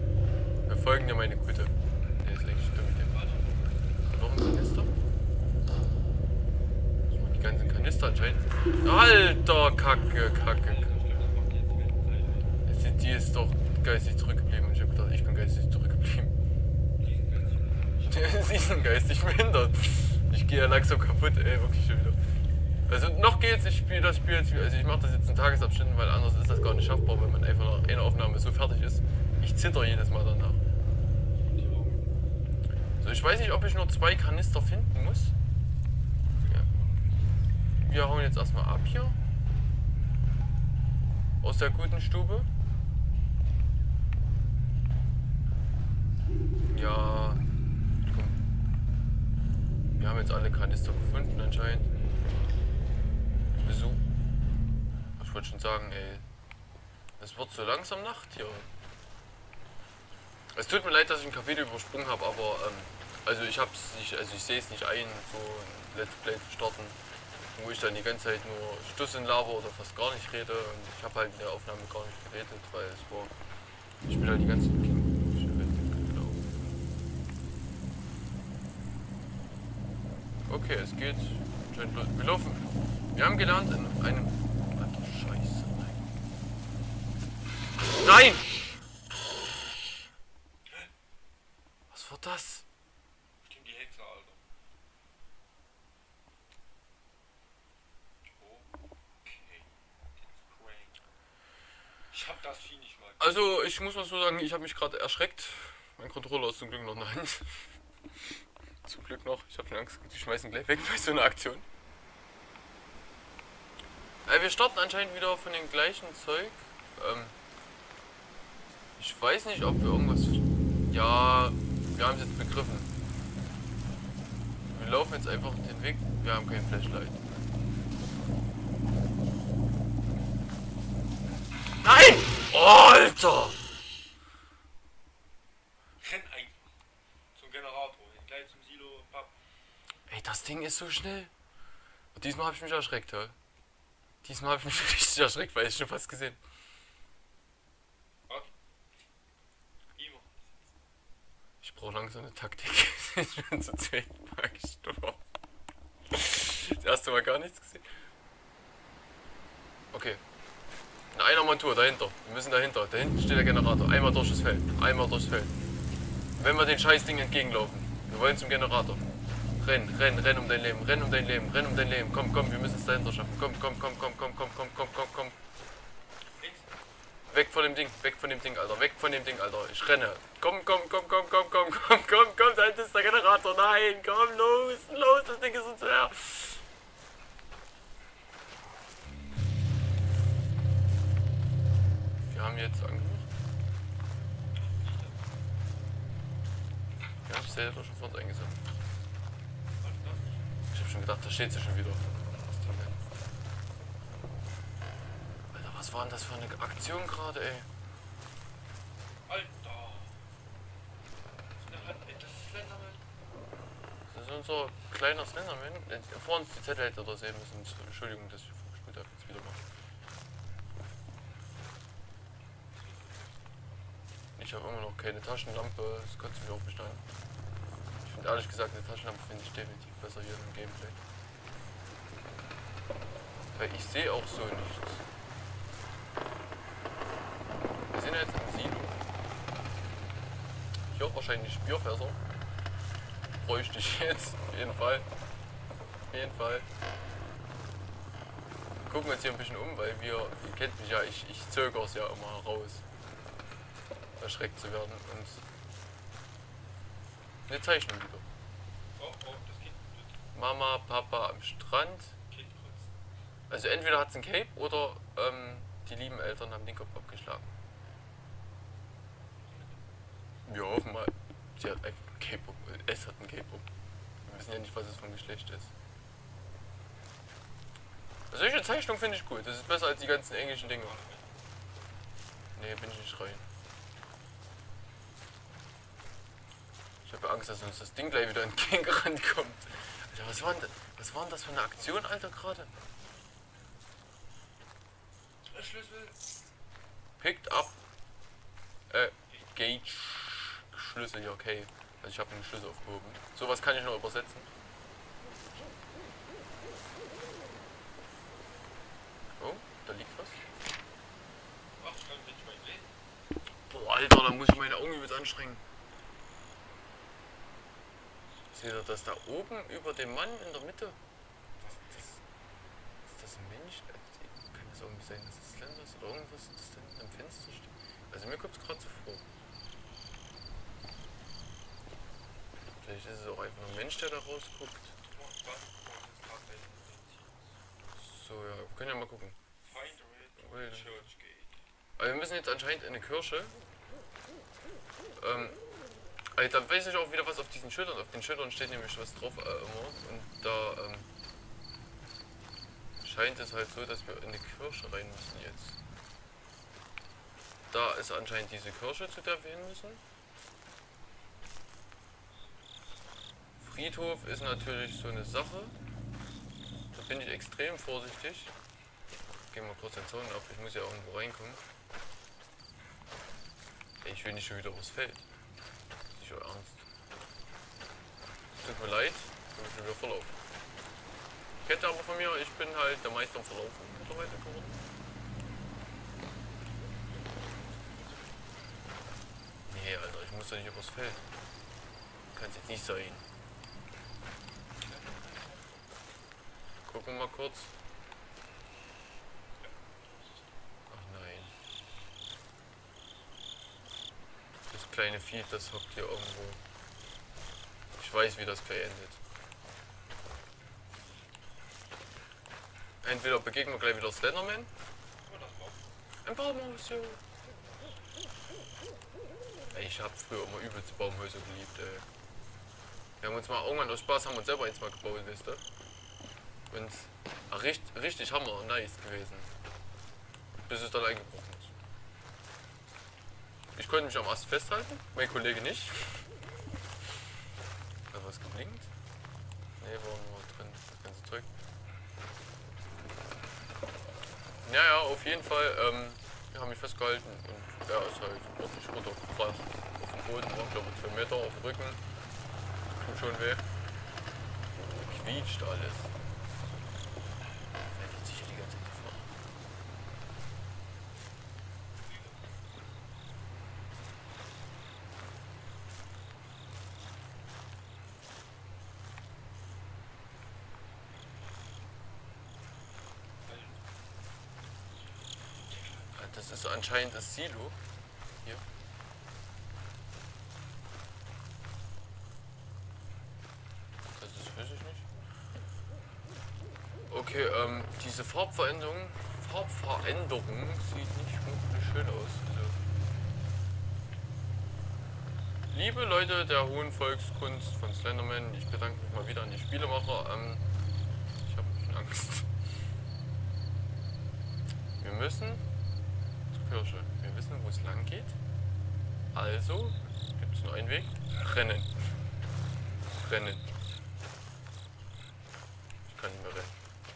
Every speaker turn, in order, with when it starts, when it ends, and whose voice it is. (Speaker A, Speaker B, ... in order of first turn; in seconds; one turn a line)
Speaker A: 0.7-3.1
Speaker B: 3.1-3.8
Speaker A: 4.0-4.9
Speaker A: 7.1-10.9
Speaker B: 10.7-12.5
Speaker A: 12.7-16.4
Speaker B: 17.0-18.5
Speaker A: 18.1-22.2
Speaker A: 22.9-30.6
Speaker B: 31.5-32.1
Speaker A: 33.0-35.4
Speaker B: 36.4-37.2
Speaker A: 37.8-39.2
Speaker A: 41.4-42.5
Speaker A: 46.7-47.5
Speaker A: 48.1-48.4
Speaker A: 50.0-51.9
Speaker A: 53.6-54.0
Speaker A: 55.2-56.3
Speaker A: 57.2-58.7
Speaker A: 60.5-67.0
Speaker A: 67.5-73.3
Speaker A: 74.1-76.8
Speaker A: 80.5-86.0
Speaker A: 87.9-88.8
Speaker A: 91.9-92.7
Speaker B: 93.4-94.4
Speaker B: 98.4-98.7
Speaker B: 99.2-99.7
Speaker B: 100.5-101.0
Speaker B: 102.1-103.2
Speaker A: 103.2-107.5
Speaker A: 108.8-111.7
Speaker A: 114.2-117.3
Speaker A: 119.0-122.9
Speaker A: 124.7-127.2
Speaker A: 131.8-133.6
Speaker B: 136.0-136.6
Speaker B: 137.3-139.3
Speaker A: 140.1-141.3
Speaker A: 142.2-143.3
Speaker A: 144.2-146.4
Speaker B: 150.0-150.5
Speaker A: 151.6-155.2
Speaker A: 156.1-157.8
Speaker A: 159.9-160.2
Speaker A: 161.1-165.6
Speaker A: 166.4-169.0
Speaker A: 169.6-175.4
Speaker B: 176.4-176.7
Speaker A: 177.3-186.6
Speaker A: 192.3-193.3
Speaker B: 194.8-195.2
Speaker A: 197.3-198.6
Speaker B: 199.8-200.5
Speaker A: 200.7-203.0
Speaker A: 205.5-207.7
Speaker B: 209.3-210.1
Speaker B: 211.6-213.0
Speaker A: 214.1-219.6
Speaker B: 222.8-223.3
Speaker A: 224.4-227.1
Speaker A: 228.0-231.0
Speaker A: 233.5-235.0
Speaker A: 237.9-239.0
Speaker A: 240.9-242.2
Speaker A: 243.4-245.1
Speaker A: 246.1-246.7
Speaker A: 248.9-252.8
Speaker A: 254.2-255.4
Speaker A: 257.5-258.3
Speaker B: 259.0-260.1
Speaker A: 260.3-262.1
Speaker B: 262.3-262.9
Speaker A: 263.5-267.5
Speaker B: 269.4-269.8
Speaker A: 270.5-273.7
Speaker A: 274.2-275.7
Speaker A: 278.3-281.0
Speaker B: 280.6-281.4
Speaker A: 282.6-283.5
Speaker A: 287.1-292.7
Speaker B: 295.5-296.1
Speaker A: 297.2-297.8
Speaker A: 298.9-304.5
Speaker A: 309.4-310.4
Speaker B: 311.8-312.9
Speaker A: 313.7-315.6
Speaker A: 318.5-321.0
Speaker A: 321.9-322.2
Speaker A: 323.1-329.2
Speaker A: 332.8-334.9
Speaker B: 335.1-337.3
Speaker A: 338.0-339.4
Speaker B: 339.7-341.5
Speaker A: 340.4-341.1
Speaker A: 342.0-343.5
Speaker A: 345.2-345.6
Speaker A: 346.4-351.1
Speaker A: 353.0-355.8
Speaker A: 357.7-360.0
Speaker A: 363.6-365.8
Speaker A: 366.9-368.5
Speaker A: 369.5-371.6
Speaker A: 374.0-375.3
Speaker A: 376.1-376.9
Speaker A: 378.6-380.4
Speaker A: 381.6-384.8
Speaker A: 389.7-391.2
Speaker A: 392.3-393.3
Speaker B: 394.8-395.8
Speaker A: 396.9-397.7
Speaker A: 400.9-401.5
Speaker A: 404.7-406.6
Speaker A: 408.0-409.2
Speaker A: 413.0-414.7
Speaker B: 415.3-415.8
Speaker A: 416.2-417.2
Speaker A: 419.7-422.1
Speaker A: 423.2-425.6
Speaker A: 426.7-429.5
Speaker A: 430.6-431.7
Speaker A: 433.8-436.2
Speaker A: 438.1-438.9
Speaker A: 439.8-441.5
Speaker A: 444.6-452.0
Speaker A: 453.0-453.6
Speaker A: 454.8-456.1
Speaker A: 457.9-459.3
Speaker B: 473.4-473.8
Speaker A: 476.1-477.8
Speaker A: 484.2-485.1
Speaker A: 487.1-492.8
Speaker A: 495.7-500.6
Speaker A: 501.4-502.5
Speaker A: 505.0-505.6
Speaker A: 506.5-508.4
Speaker A: 509.3-511.9
Speaker A: 513.1-513.7
Speaker A: 516.1-516.8